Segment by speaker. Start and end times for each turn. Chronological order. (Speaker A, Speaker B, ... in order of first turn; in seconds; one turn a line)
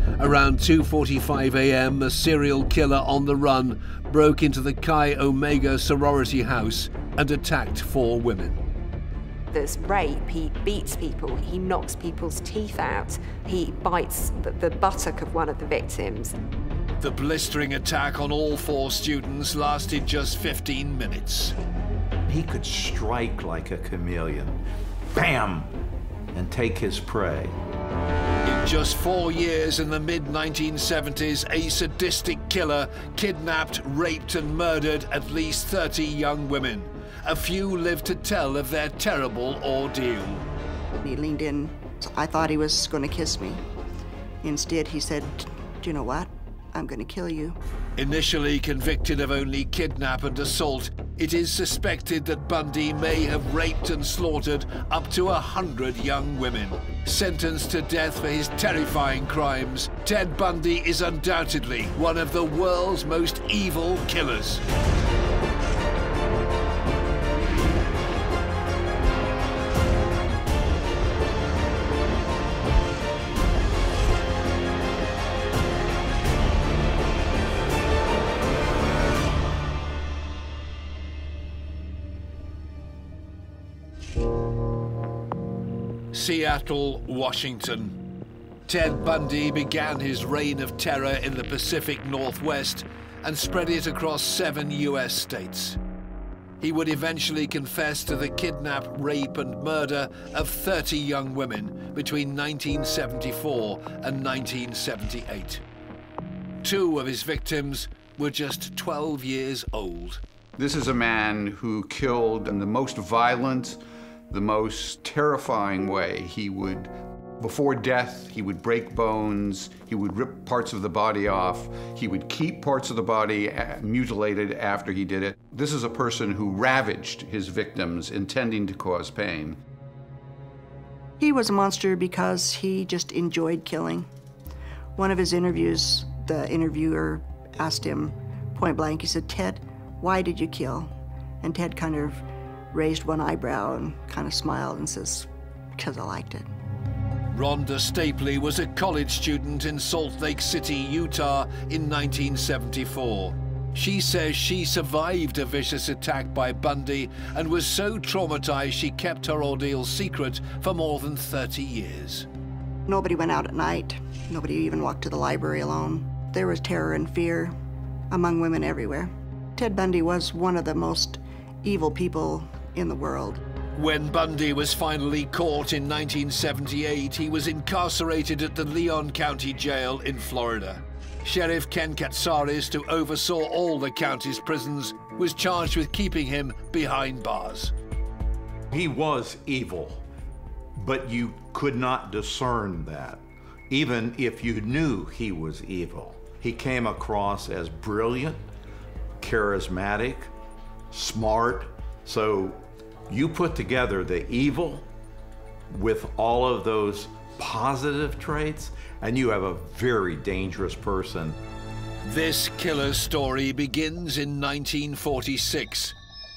Speaker A: 0.2-8.6
Speaker B: 9.5-16.4
Speaker A: 17.0-21.5
Speaker C: 22.3-24.6
Speaker C: 25.1-25.7
Speaker C: 26.3-27.5
Speaker A: 28.4-40.5
Speaker D: 40.9-43.6
Speaker D: 44.4-47.6
Speaker A: 48.0-64.6
Speaker A: 86.1-88.0
Speaker A: 88.7-95.8
Speaker A: 96.6-105.6
Speaker A: 106.6-110.2
Speaker E: 110.6-129.6
Speaker D: 131.2-134.1
Speaker D: 134.9-140.9
Speaker D: 141.4-146.5
Speaker A: 147.3-162.3
Speaker D: 162.9-167.5
Speaker D: 168.1-173.4
Speaker A: 173.8-187.7
Speaker C: 188.7-190.0
Speaker C: 190.8-198.4
Speaker C: 199.2-200.3
Speaker C: 200.9-204.9
Speaker C: 205.7-211.4
Speaker A: 212.0-215.9